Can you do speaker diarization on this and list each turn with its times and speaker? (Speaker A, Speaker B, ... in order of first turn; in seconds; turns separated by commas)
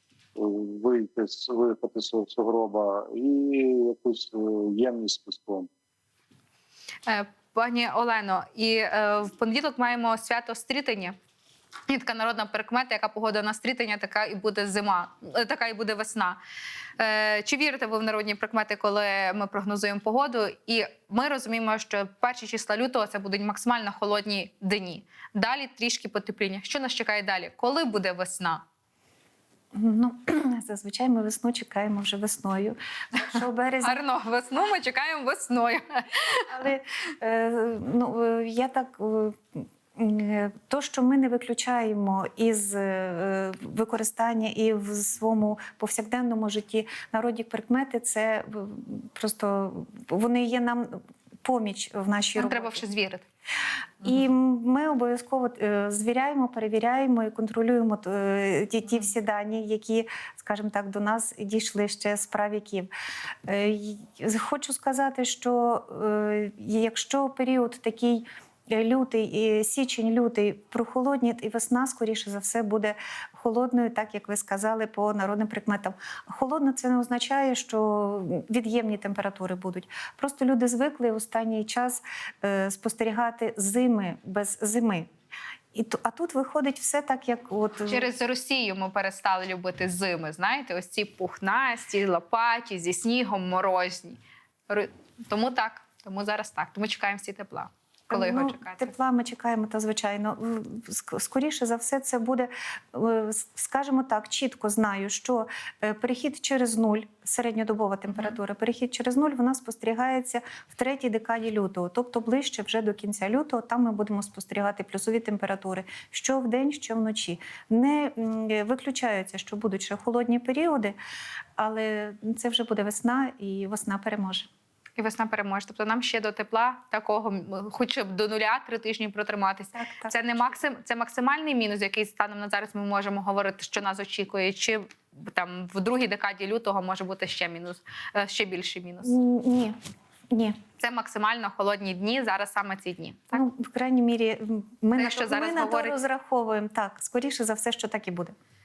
Speaker A: 0.3-5.7, Speaker B: 7.0-11.2, Speaker B: 11.9-16.4, Speaker B: 17.0-28.6, Speaker C: 29.7-34.0, Speaker B: 33.8-36.4, Speaker C: 36.5-52.8, Speaker B: 52.4-53.2, Speaker C: 54.0-62.9, Speaker C: 63.5-85.1, Speaker C: 85.7-88.1, Speaker B: 87.9-98.9, Speaker C: 98.1-121.0, Speaker B: 108.1-108.4, Speaker C: 121.6-124.5, Speaker B: 125.0-139.1, Speaker C: 129.7-130.6, Speaker C: 139.0-139.8, Speaker C: 140.3-140.6, Speaker B: 140.8-143.4, Speaker C: 143.3-148.3, Speaker B: 144.9-146.0